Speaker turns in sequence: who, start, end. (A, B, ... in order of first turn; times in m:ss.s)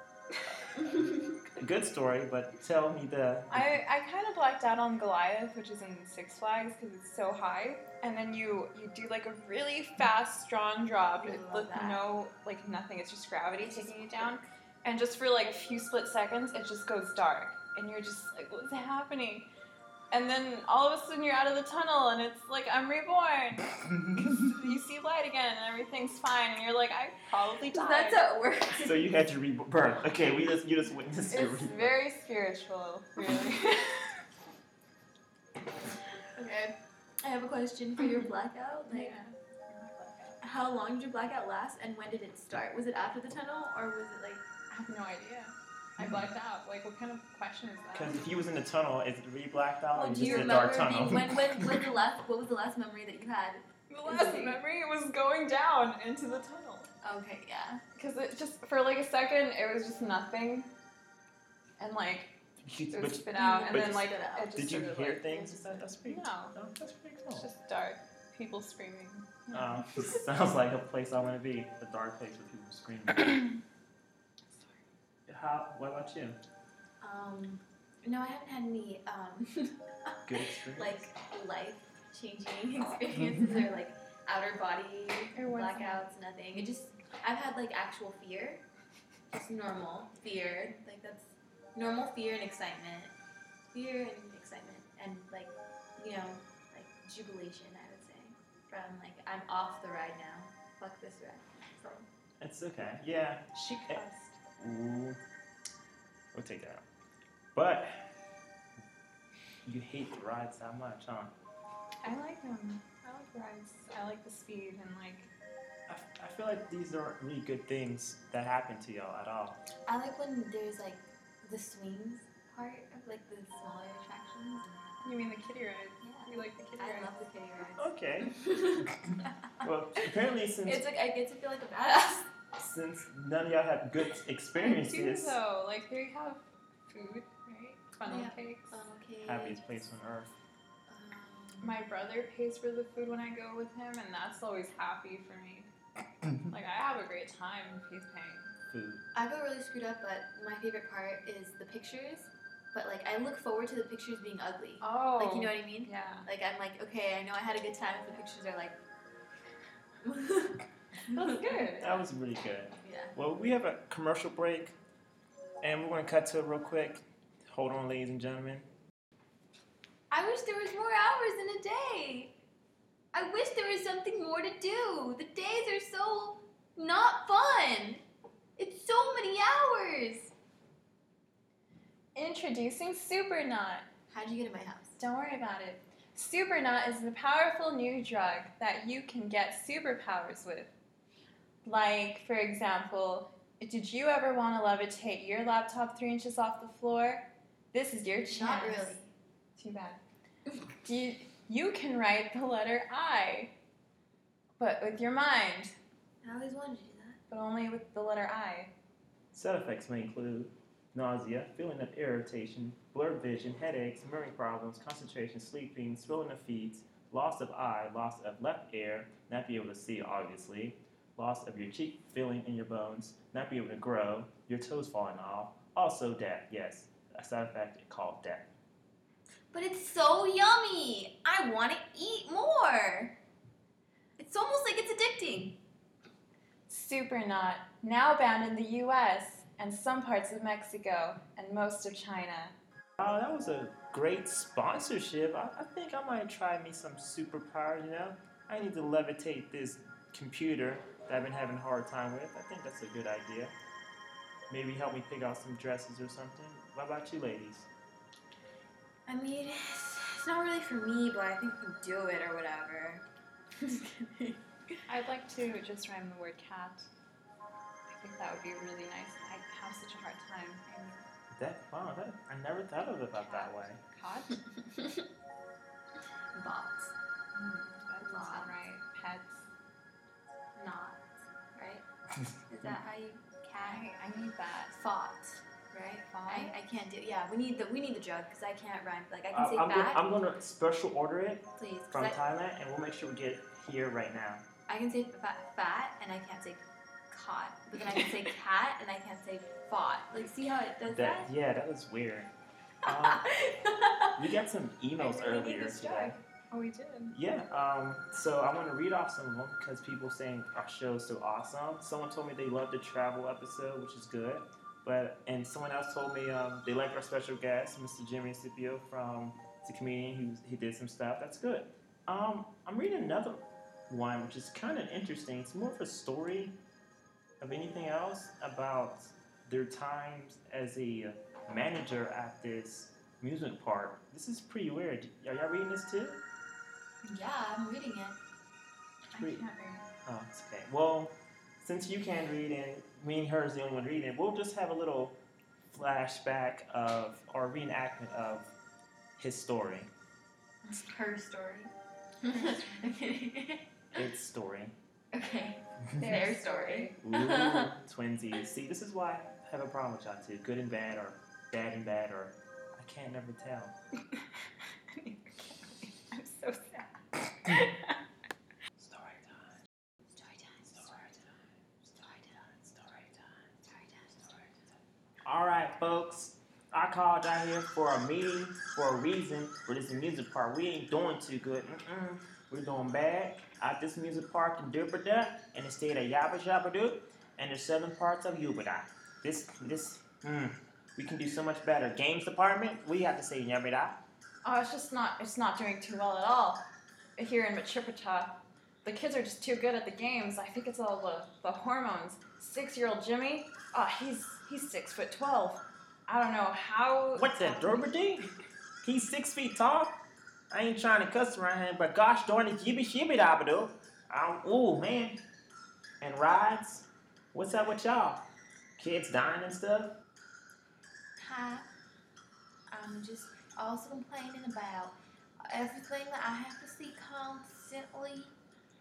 0:00.4-0:00.7 A
0:00.7-0:01.4 B
0:01.5-0:03.8 C
0:03.5-0:19.5 A
0:11.2-0:12.1 B
0:13.6-0:14.4 B
0:20.1-0:28.3 A
0:27.7-0:29.1 B
0:28.7-0:31.9 C
0:31.3-0:34.2 A
0:36.4-0:39.2 B
0:38.0-0:38.3 A
0:38.9-0:40.4 A
0:40.4-0:44.5 B
0:44.7-0:48.2 A
0:47.9-0:51.3 C
0:49.9-0:54.6 B
0:50.1-0:50.8 A
0:53.9-0:56.9 A
0:57.0-0:57.8 B
0:57.9-1:00.7 A
1:01.8-1:06.5 A
1:02.6-1:04.0 C
1:03.3-1:04.5 B
1:04.5-1:07.5 C
1:07.3-1:10.2 A
1:09.5-1:13.4 C
1:14.5-1:14.8 A
1:15.3-1:16.4 C
1:17.0-1:20.1 B
1:20.2-1:21.1 C
1:20.7-1:28.6 B
1:25.3-1:26.0 A
1:29.3-1:42.1 B
1:42.4-1:44.0 C
1:43.5-1:44.4 A
1:44.6-1:45.2 C
1:46.3-1:46.8 C
1:47.5-1:47.9 C
1:49.6-1:51.3 C
1:52.0-1:55.3 A
1:55.9-1:59.6 C
1:59.9-2:05.0 B
2:05.0-2:07.1 A
2:06.0-2:09.0 B
2:07.8-2:08.4 C
2:09.6-2:10.8 C
2:10.6-2:12.3 B
2:12.5-2:15.4 C
2:14.5-2:18.8 A
2:18.0-2:19.8 B
2:19.2-2:20.3 C
2:20.9-2:21.8 B
2:21.6-2:25.7 A
2:26.4-2:28.5 A
2:28.7-2:29.0 C
2:29.1-2:38.8 B
2:34.8-2:36.3 A
2:40.0-2:41.7 B
2:41.1-2:42.0 A
2:41.8-2:44.8 C
2:42.8-2:43.1 B
2:45.6-2:48.7 C
2:50.1-2:52.3 B
2:53.1-2:58.0 B
2:58.6-3:00.3 B
3:02.1-3:03.8 A
3:04.1-3:05.0 B
3:05.0-3:10.7 A
3:11.6-3:19.0 A
3:18.3-3:19.1 B
3:19.6-3:20.0 A
3:20.8-3:23.5 A
3:24.6-3:25.7 A
3:26.2-3:27.2 B
3:27.3-3:28.7 A
3:29.3-3:48.5 C
3:49.5-3:53.1 B
3:54.2-3:55.5 B
3:56.7-4:02.5 A
4:03.0-4:13.5 C
4:14.5-4:17.7 C
4:19.1-4:23.0 B
4:23.6-4:24.4 B
4:24.9-4:26.9 A
4:27.9-4:31.0 A
4:31.3-4:33.8 C
4:33.1-4:34.4 A
4:36.3-4:36.9 B
4:37.3-4:39.4 A
4:38.0-4:38.6 B
4:40.6-4:41.0 B
4:41.6-4:41.8 B
4:42.5-4:43.9 B
4:43.6-4:44.7 A
4:44.7-4:50.0 B
4:46.0-4:46.5 A
4:49.3-4:54.4 C
4:51.6-4:52.2 B
4:54.7-5:01.3 B
5:00.9-5:02.3 C
5:02.8-5:03.2 C
5:02.8-5:04.2 B
5:04.2-5:06.2 C
5:05.0-5:06.2 B
5:06.5-5:07.4 A
5:07.1-5:26.6 C
5:27.4-5:36.2 C
5:37.0-5:38.2 B
5:39.1-5:39.8 A
5:39.1-5:39.4 C
5:40.0-5:45.1 C
5:45.7-5:48.5 C
5:49.2-5:49.9 C
5:50.6-5:54.0 B
5:52.2-5:52.9 A
5:53.9-5:54.7 C
5:55.1-5:57.7 B
5:55.9-5:56.2 C
5:56.0-5:57.0 A
5:57.0-6:03.7 C
6:04.9-6:08.0 A
6:08.8-6:09.6 C
6:10.2-6:10.9 B
6:10.7-6:13.3 C
6:12.0-6:12.3 B
6:13.7-6:14.2 B
6:15.2-6:34.0 C
6:34.4-6:48.1 A
6:47.1-6:48.3 C
6:48.8-6:50.0 C
6:50.5-6:55.2 C
6:56.0-6:58.2 C
6:58.8-6:59.9 C
7:01.2-7:01.7 B
7:02.7-7:04.9 B
7:05.5-7:08.3 B